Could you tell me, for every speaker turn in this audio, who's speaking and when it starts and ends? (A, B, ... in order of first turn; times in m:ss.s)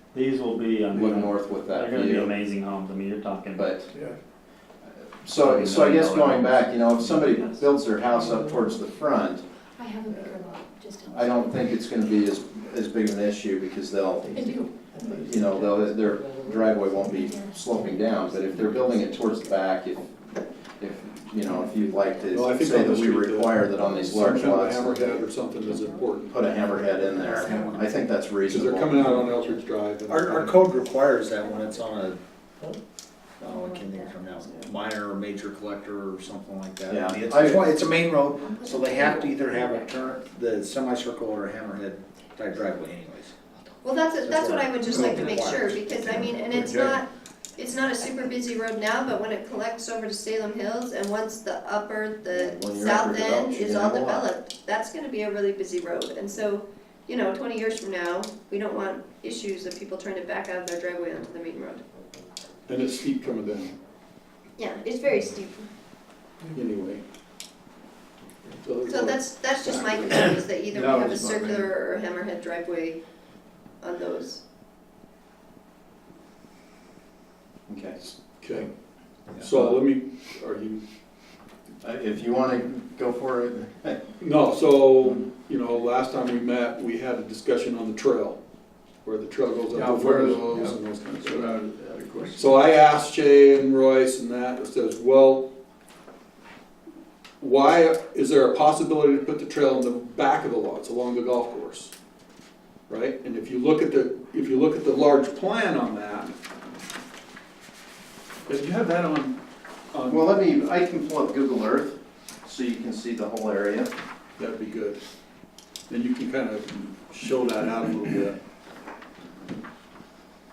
0:00.1-0:03.7 A
0:00.9-0:02.3 B
0:03.6-0:03.9 B
0:05.2-0:09.4 B
0:05.4-0:07.7 A
0:09.8-0:11.6 C
0:10.1-0:10.4 B
0:11.1-0:20.1 B
0:14.3-0:15.2 C
0:17.1-0:19.6 C
0:20.8-0:25.3 B
0:22.3-0:26.4 D
0:23.8-0:24.1 C
0:25.6-0:28.0 C
0:26.3-0:29.1 B
0:28.5-0:30.6 D
0:29.0-0:29.6 C
0:30.0-0:32.2 E
0:30.8-0:32.0 C
0:33.4-0:43.3 E
0:33.4-0:34.7 C
0:36.9-0:37.7 B
0:38.4-0:40.3 C
0:43.8-1:01.8 F
0:44.2-0:45.6 E
0:44.8-0:45.5 C
0:46.0-0:46.4 C
0:46.5-0:47.0 G
0:52.3-0:54.3 B
1:02.7-1:03.8 D
1:04.6-1:05.7 F
1:06.5-1:07.0 D
1:08.6-1:10.4 D
1:08.9-1:13.0 F
1:10.7-1:11.7 G
1:13.8-1:14.4 F
1:17.7-1:18.0 B
1:18.4-1:18.7 D
1:19.4-1:20.8 D
1:21.8-1:24.0 B
1:24.2-1:28.4 D
1:29.0-1:31.4 D
1:29.7-1:32.5 G
1:32.4-1:35.5 D
1:37.4-1:41.9 D
1:42.9-1:46.3 D
1:48.5-1:49.4 D
1:49.9-1:50.2 D
1:50.1-1:53.9 B
1:54.4-1:55.0 D
1:55.9-1:58.4 D